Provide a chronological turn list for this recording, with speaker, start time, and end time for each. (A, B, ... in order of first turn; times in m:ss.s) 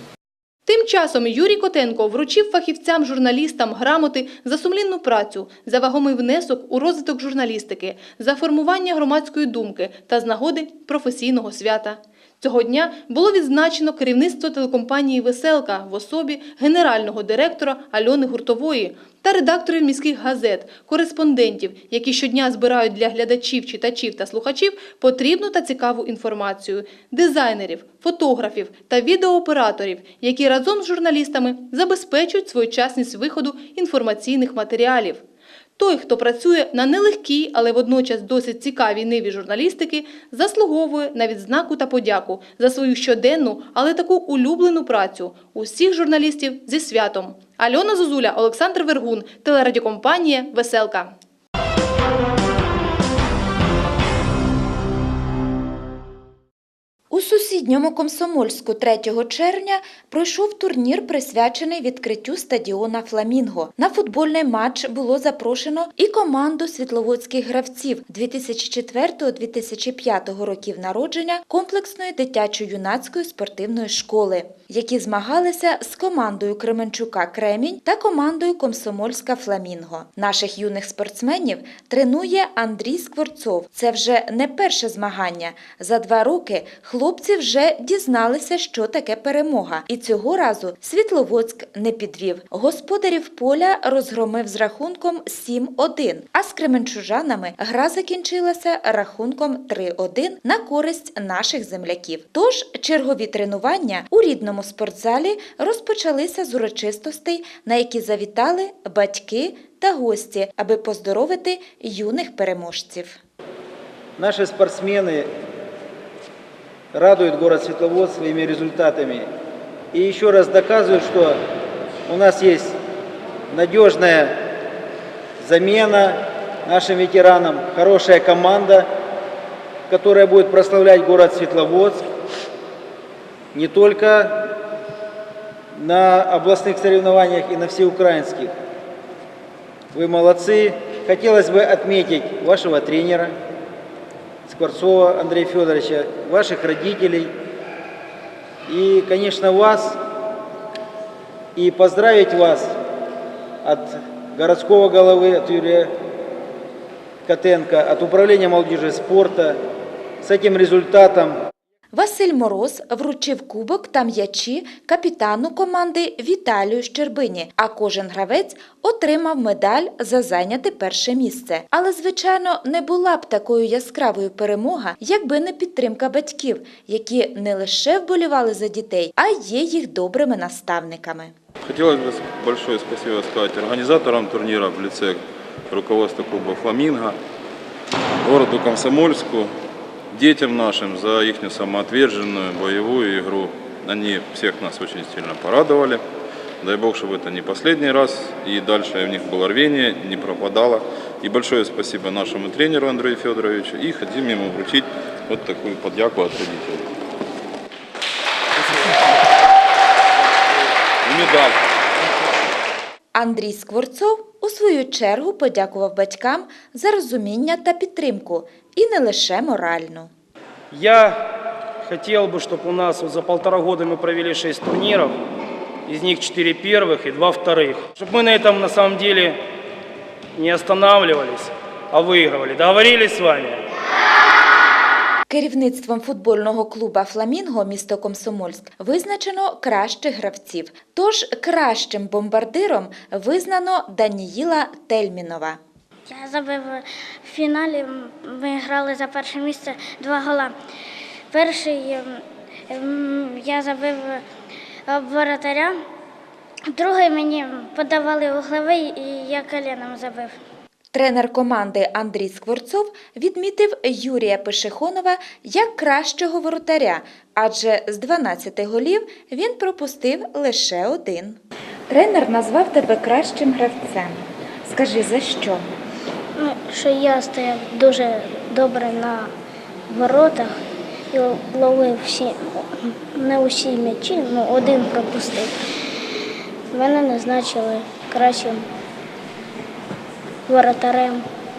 0:00.7-0:35.2 A
0:35.8-0:51.1 A
0:57.1-1:53.2 B
1:54.2-1:55.3 C
1:56.9-1:59.3 C
1:59.9-2:01.4 C
2:02.1-2:02.8 C
2:03.5-2:04.4 C
2:05.4-2:08.9 C
2:09.9-2:12.0 C
2:13.5-2:14.4 C
2:15.8-2:18.6 C
2:19.9-2:23.3 C
2:24.5-2:27.3 C
2:28.7-2:30.0 C
2:31.6-2:32.7 C
2:33.6-2:35.9 C
2:37.3-2:39.6 C
2:40.2-2:41.4 C
2:41.9-3:01.3 B
3:01.7-3:07.2 D
3:08.2-3:09.5 D
3:10.1-3:16.0 D
3:16.6-3:26.9 D
3:31.0-3:31.6 D
3:33.2-3:40.1 B
3:40.7-3:41.3 E
3:41.8-3:45.2 E
3:45.9-3:49.4 E
3:50.4-3:53.6 E
3:55.3-4:05.6 B
4:06.1-4:10.6 F
4:11.3-4:14.2 F
4:14.9-4:15.8 F
4:16.7-4:20.4 F
4:20.9-4:31.4 B
4:31.9-4:35.6 B
4:36.4-4:39.3 F
4:39.9-4:40.6 F
4:41.1-4:45.6 F
4:46.7-4:48.7 F
4:50.5-4:51.2 F